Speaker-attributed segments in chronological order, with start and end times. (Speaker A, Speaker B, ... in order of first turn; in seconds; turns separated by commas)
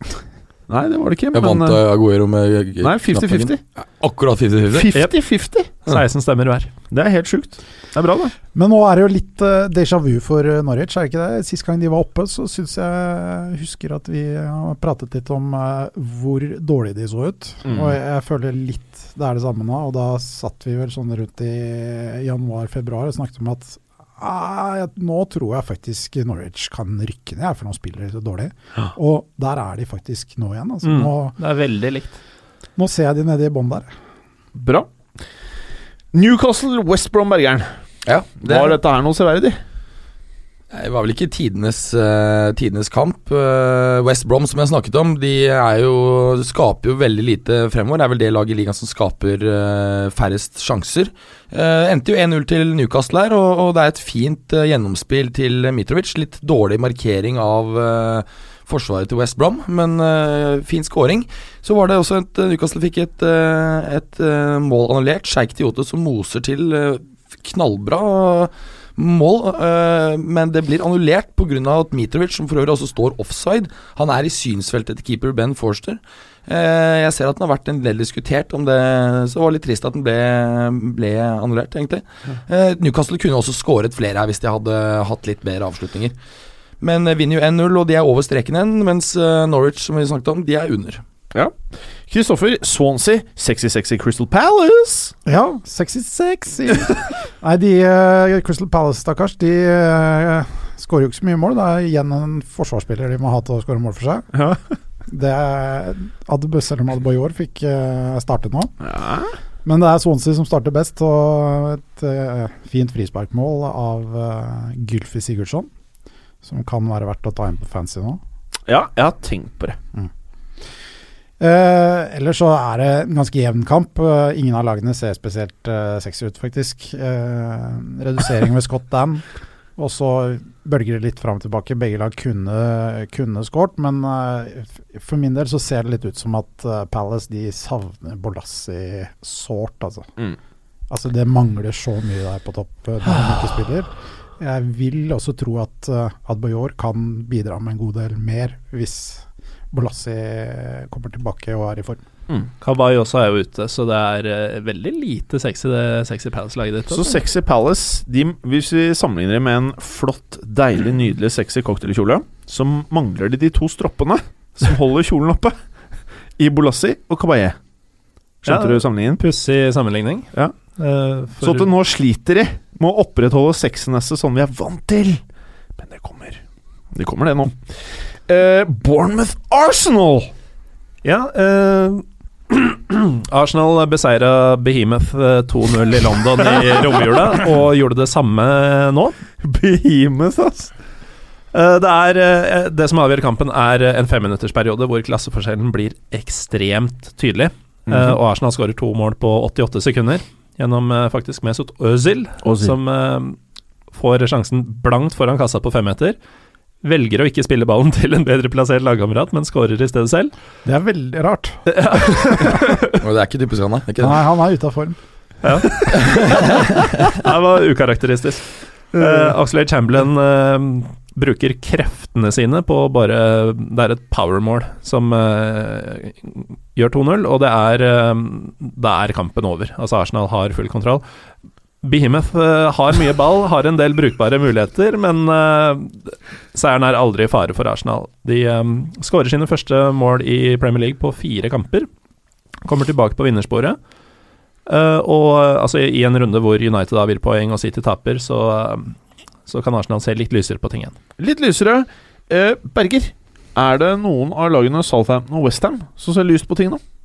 Speaker A: 0.7-1.8, Speaker B: 1.3-4.9, Speaker A: 2.8-3.6, Speaker A: 4.7-5.7, Speaker C: 5.8-6.7, Speaker A: 6.9-8.3, Speaker D: 8.6-31.4, Speaker A: 17.7-18.0, Speaker C: 30.8-32.2, Speaker D: 32.8-33.9, Speaker A: 34.5-34.9, Speaker A: 36.1-37.7, Speaker B: 38.1-38.8, Speaker A: 38.4-39.6, Speaker B: 40.7-86.1, Speaker B: 86.8-91.0, Speaker A: 92.1-95.1, Speaker D: 95.3-104.3, Speaker D: 105.1-108.7, Speaker A: 108.8-109.3, Speaker D: 109.7-115.7, Speaker D: 116.4-118.2, Speaker A: 118.7-119.8, Speaker D: 121.4-129.2, Speaker D: 129.8-140.1, Speaker D: 140.9-152.0, Speaker A: 143.1-143.4, Speaker C: 152.6-157.2, Speaker A: 156.9-165.6, Speaker A: 166.4-167.6, Speaker A: 168.4-169.2, Speaker C: 168.5-171.7, Speaker A: 171.4-175.2, Speaker A: 175.8-176.4, Speaker A: 176.9-180.3, Speaker C: 181.0-189.2, Speaker A: 189.4-190.7, Speaker C: 191.5-203.4, Speaker A: 197.9-198.2, Speaker A: 202.4-202.8, Speaker C: 203.9-206.2, Speaker C: 206.8-210.3, Speaker D: 210.7-212.6, Speaker C: 211.7-213.0, Speaker B: 213.0-214.2, Speaker D: 214.0-215.0, Speaker C: 215.4-231.0, Speaker B: 215.9-216.5, Speaker C: 231.8-241.9, Speaker C: 242.6-243.8, Speaker C: 244.7-248.9, Speaker C: 249.5-251.0, Speaker A: 251.2-256.8